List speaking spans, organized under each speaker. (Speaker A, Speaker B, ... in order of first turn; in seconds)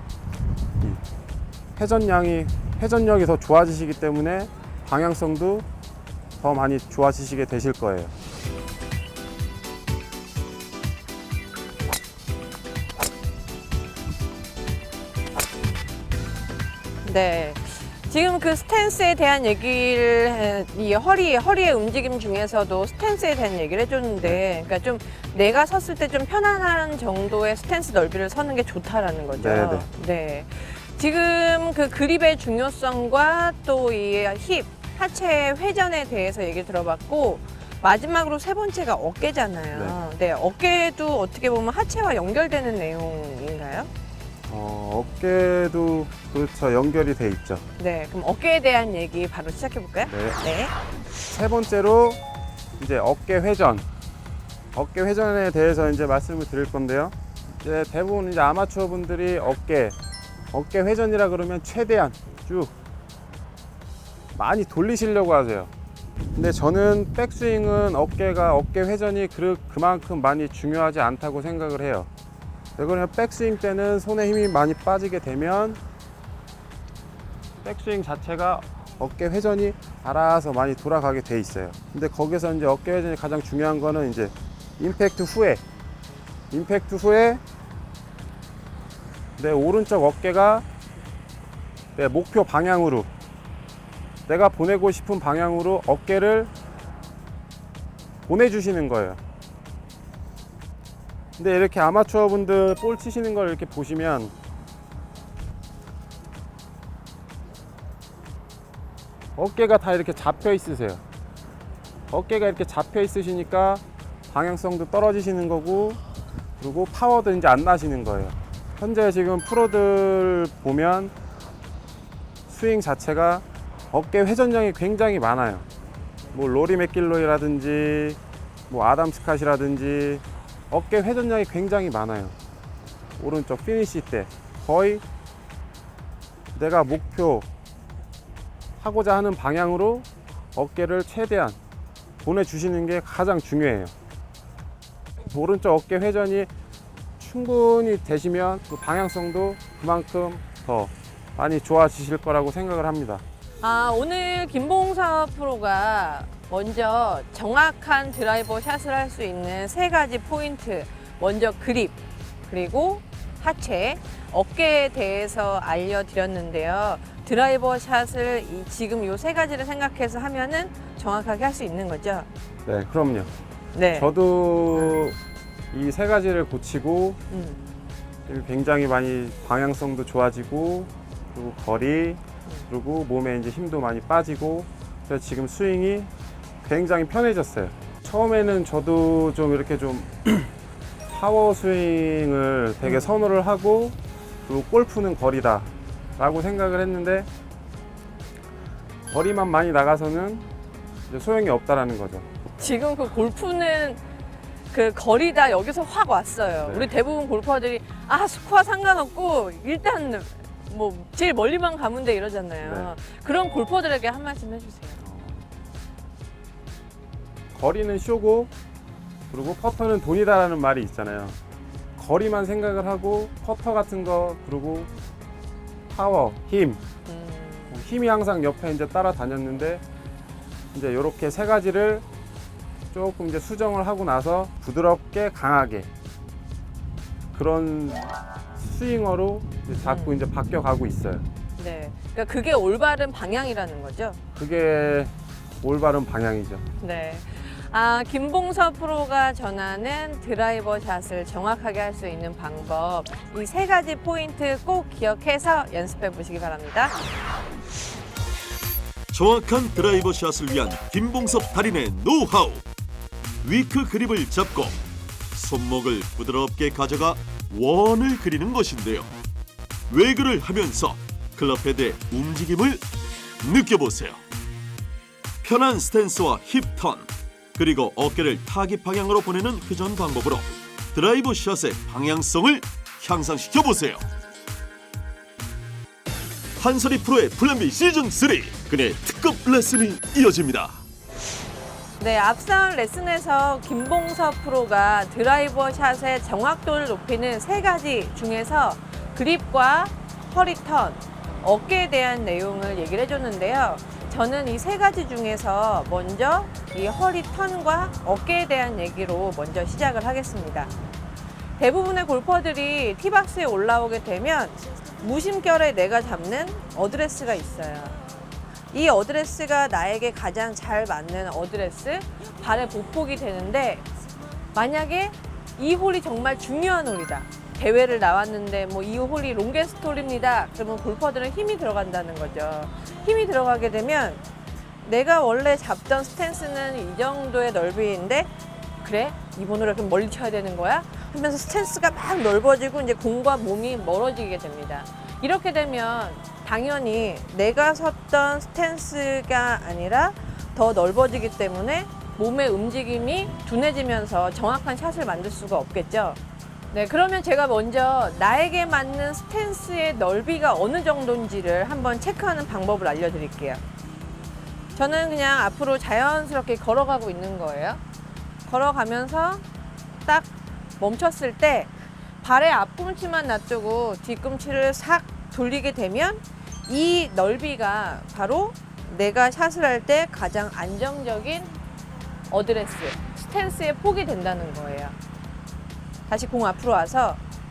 Speaker A: 1.8-5.7, 6.4-8.1, 29.4-29.9, 39.7-40.0, 44.5-47.6, 50.0-50.4, 51.3-52.2, 52.8-53.9, 54.7-60.0, 60.5-62.7, 64.3-65.7, 66.3-72.1, 72.8-75.8, 77.6-85.6, 86.5-87.4, 89.4-90.7, 92.0-93.1, 94.3-96.5, 98.3-99.2, 101.4-104.3, 109.4-111.0, 112.1-116.0, 116.6-121.1, 122.5-125.7, 126.3-128.2, 128.7-132.3, 133.2-135.0, 136.6-137.5, 138.8-141.6, 142.2-143.9, 145.3-146.5, 147.2-153.2, 172.7-173.3, 173.9-175.2, 175.7-177.2, 178.3-186.1, 186.6-190.5, 191.1-197.3, 199.1-200.5, 201.1-202.2, 206.6-206.9, 212.6-212.9, 215.0-215.4, 217.6-218.5, 219.3-221.4, 222.0-224.9, 225.9-226.8, 227.7-229.8, 230.7-232.0, 232.9-235.9, 237.3-241.3, 244.4-246.6
Speaker B: 17.0-43.9, 47.8-50.8, 153.6-172.3, 173.7-174.1, 177.3-177.7, 192.8-193.1, 202.6-204.0, 204.7-215.0, 227.1-227.8, 239.8-240.2, 241.6-244.2, 246.8-257.0, 292.0-310.7, 311.6-318.0, 318.7-323.9, 324.5-334.2, 334.8-338.3, 338.8-356.2, 356.7-363.6, 364.8-367.8, 368.4-369.4, 370.1-381.5, 382.3-385.0, 386.1-387.2
Speaker C: 259.1-262.6, 263.4-264.8, 265.3-269.1, 269.9-272.8, 273.4-274.2, 275.4-284.1, 286.6-290.8